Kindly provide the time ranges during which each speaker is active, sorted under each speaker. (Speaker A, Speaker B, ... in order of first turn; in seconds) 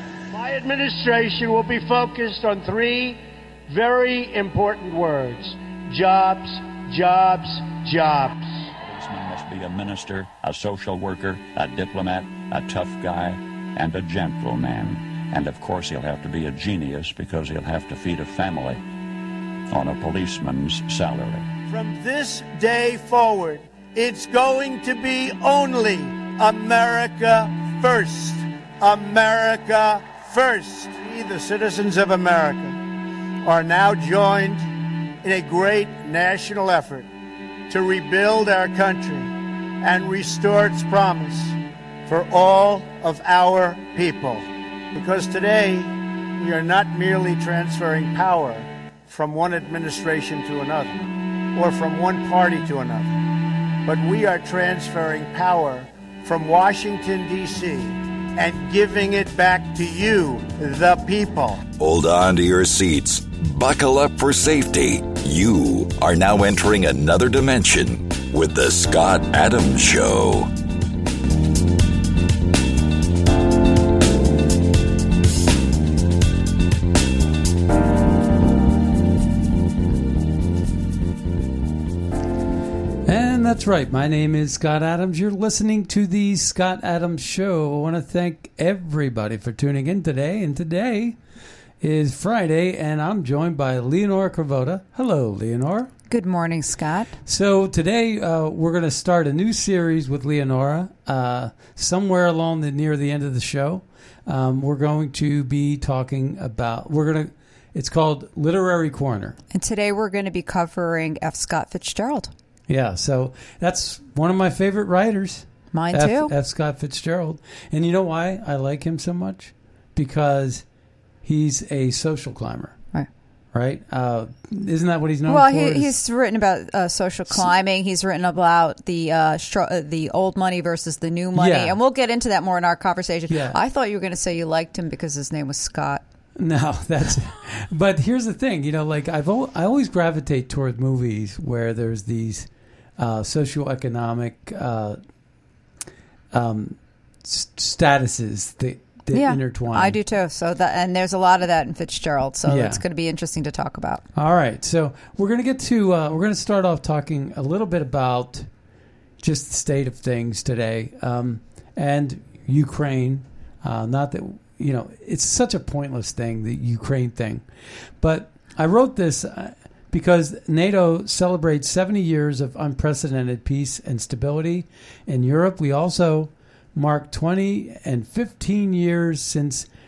Speaker A: 0.3-8.7, 21.7-32.8, 33.4-34.7, 35.2-37.1, 37.7-51.0, 51.5-53.1, 53.8-61.6
Speaker B: 8.8-18.8, 19.7-21.5
Speaker C: 61.8-70.5
Speaker D: 83.0-91.2, 91.8-95.9, 97.2-109.4, 112.7-120.6, 121.2-122.7, 123.5-125.9, 131.3-131.8, 133.3-133.6, 136.4-145.0, 146.3-150.0, 152.4-152.8, 154.1-158.5, 159.2-167.4, 168.0-179.7
Speaker E: 96.1-97.1, 109.5-112.3, 115.7-116.3, 125.3-136.0, 149.1-154.0